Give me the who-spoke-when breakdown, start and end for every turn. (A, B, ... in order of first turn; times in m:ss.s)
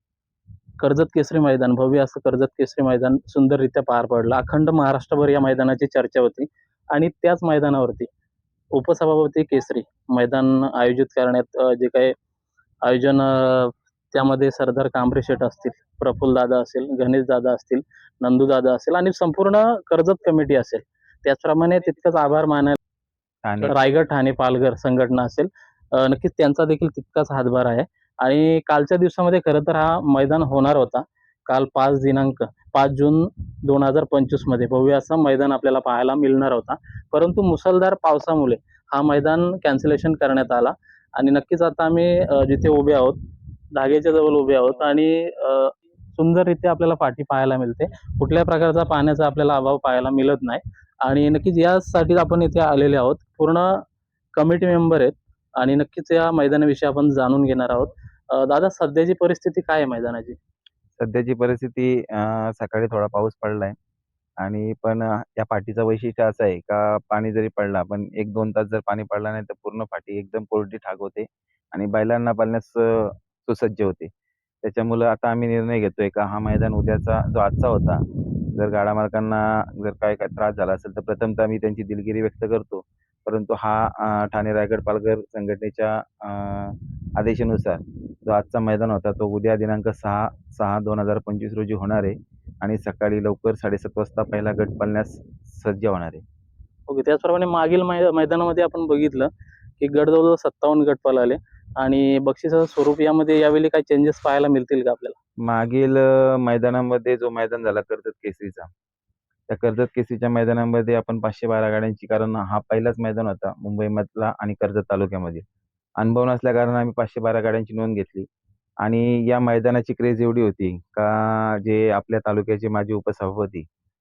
0:00.8-0:08.1 A
0:08.7-0:12.1 A
0:12.8-0:22.8 A
0:23.4-0:23.8 B
0:23.6-0:43.2 A
0:43.8-0:53.8 A
0:54.4-1:00.4 A
1:01.0-1:03.7 B
1:04.4-1:14.1 B
1:14.6-1:36.2 B
1:36.9-1:39.3 A
1:39.8-1:45.2 A
1:45.4-1:48.7 B
1:49.5-1:55.4 B
1:56.0-1:58.3 B
1:58.8-2:03.6 B